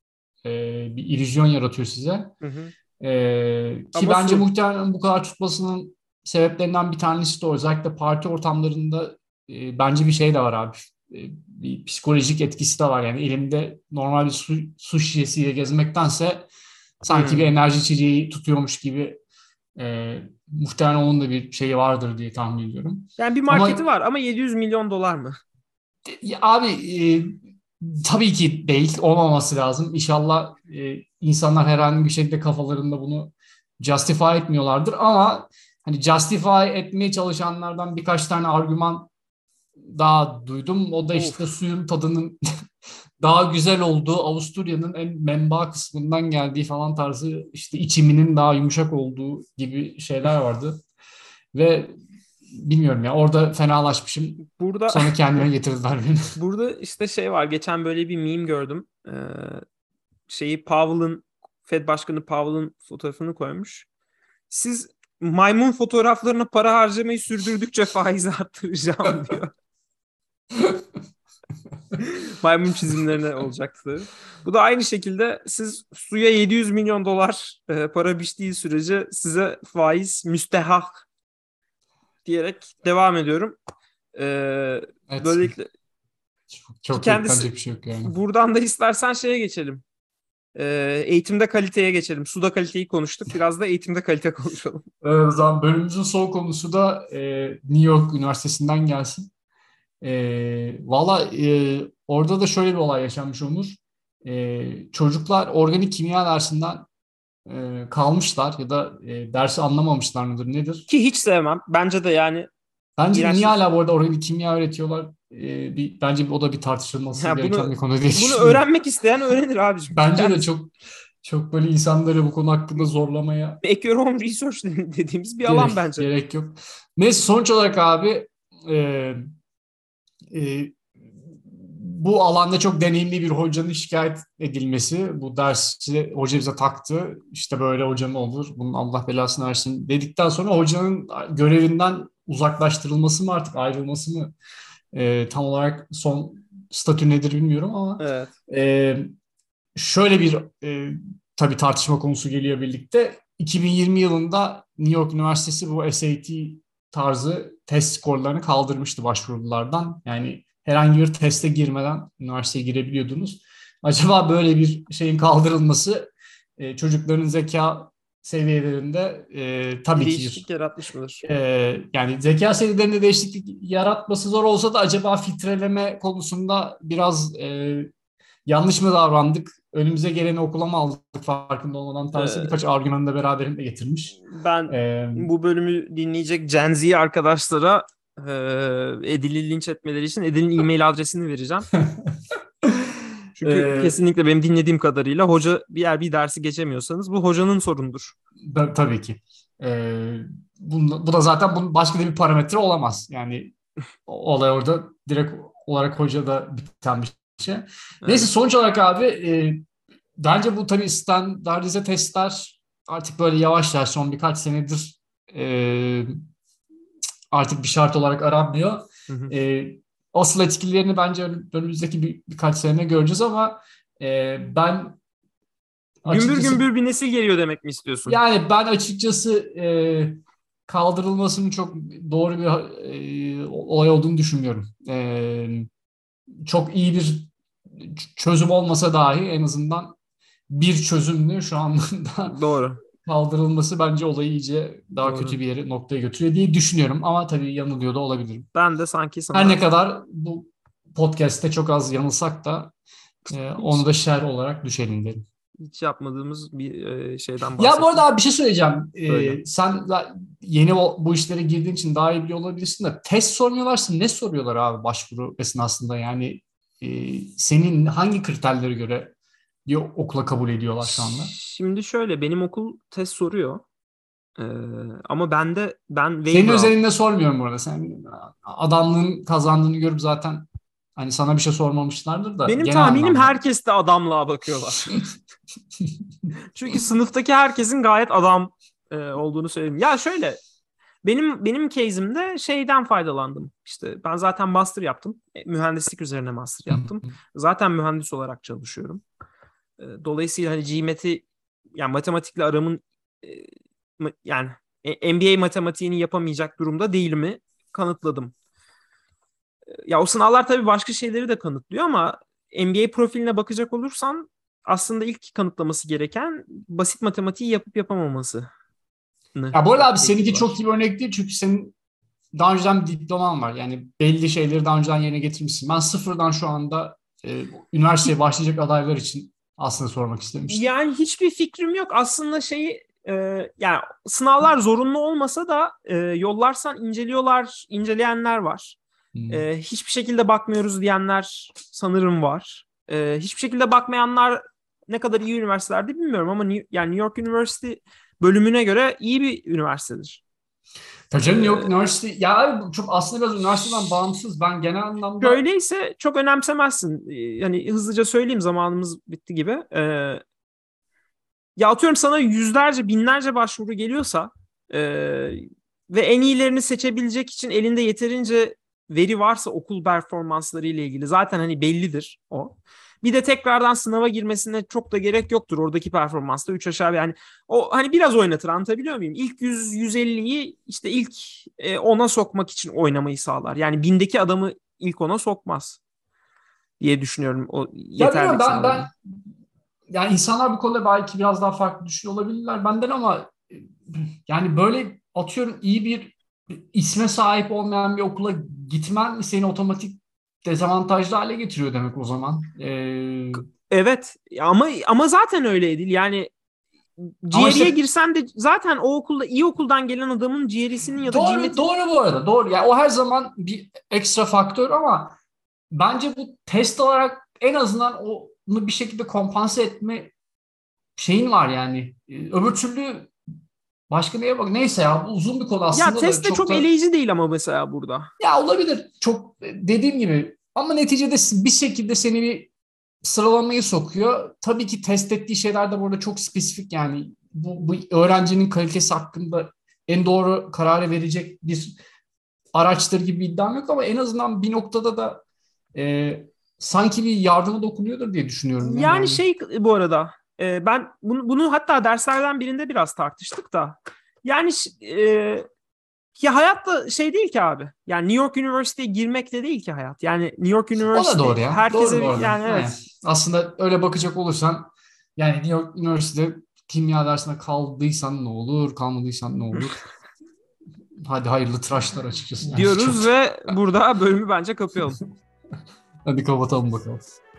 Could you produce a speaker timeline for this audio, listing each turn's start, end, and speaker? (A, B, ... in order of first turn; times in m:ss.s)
0:00.4-0:02.3 A
0:02.4-0:02.7 B
0:03.0-0:16.5 A
0:03.9-0:04.4 B
0:17.0-0:19.2 A
0:17.1-0:17.5 B
0:19.8-0:23.8 A
0:23.2-0:25.4 B
0:26.1-0:39.1 A
0:39.8-0:42.4 A
0:41.1-0:41.5 B
0:43.2-0:50.8 A
0:51.5-0:51.9 A
0:52.5-0:56.3 A
0:54.5-0:55.4 B
0:56.4-0:59.6 B
1:00.3-1:03.9 B
1:04.5-1:09.5 B
1:10.5-1:10.8 A
1:12.0-1:21.0 B
1:22.2-1:23.6 B
1:24.1-1:25.7 B
1:25.1-1:25.5 A
1:26.5-1:28.1 A
1:26.9-1:27.5 B
1:28.0-1:29.8 B
1:30.5-1:34.8 B
1:35.0-1:39.3 A
1:40.0-1:46.9 A
1:47.4-1:50.8 A
1:50.9-1:52.5 B
1:53.0-1:58.6 A
1:53.1-1:53.5 B
1:57.2-2:00.5 B
1:59.9-2:03.6 A
2:03.6-2:06.1 B
2:05.4-2:09.2 A
2:10.3-2:10.8 A
2:11.4-2:24.3 A
2:24.9-2:29.1 A
2:28.0-2:28.3 B
2:29.8-2:50.4 A
2:49.9-2:51.2 B
2:51.2-2:57.9 A
2:58.4-3:05.3 A
3:02.1-3:02.6 B
3:04.2-3:11.7 B
3:11.8-3:14.0 A
3:13.4-3:18.2 B
3:18.4-3:23.5 A
3:24.0-3:29.6 A
3:28.0-3:28.3 B
3:30.2-3:36.1 A
3:37.3-3:45.0 A
3:39.1-3:39.3 B
3:46.0-3:46.6 A
3:46.1-3:48.2 B
3:48.1-3:55.7 A
3:56.4-3:59.9 A
4:00.5-4:02.4 A
4:02.3-4:02.8 B
4:03.0-4:08.5 A
4:05.0-4:05.4 B
4:08.5-4:09.6 B
4:09.3-4:12.7 A
4:13.3-4:15.2 A
4:13.6-4:13.8 B
4:15.6-4:18.0 B
4:17.6-4:29.1 A
4:19.1-4:19.4 B
4:29.6-4:31.3 A
4:30.9-4:33.6 B
4:34.4-4:36.7 B
4:36.3-4:43.4 A
4:42.4-4:45.0 B
4:46.5-4:50.4 B
4:51.0-4:59.0 B
4:56.7-4:57.1 A
4:59.8-5:01.2 B
5:01.8-5:08.3 B
5:09.9-5:18.5 B
5:19.3-5:20.6 B
5:19.5-5:21.7 A
5:22.3-5:30.7 A
5:30.5-5:38.8 B
5:39.1-5:39.5 A
5:39.3-5:50.2 B
5:51.1-5:55.4 A
5:51.3-5:51.7 B
5:55.2-6:00.2 B
6:01.6-6:25.8 B
6:26.8-6:28.9 B
6:28.0-6:28.9 A
6:29.9-6:43.4 A
6:43.7-6:46.3 B
6:47.2-6:51.6 B
6:47.3-6:47.8 A
6:51.0-6:55.1 A
6:55.7-7:00.1 A
7:01.0-7:03.1 A
7:03.9-7:06.7 A
7:05.7-7:08.1 B
7:08.2-7:12.5 A
7:13.0-7:21.7 A
7:22.5-7:25.2 A
7:25.7-7:29.2 A
7:28.6-7:35.5 B
7:36.2-7:42.7 B
7:40.9-7:49.8 A
7:51.0-7:53.1 A
7:52.4-7:55.0 B
7:56.0-7:57.0 A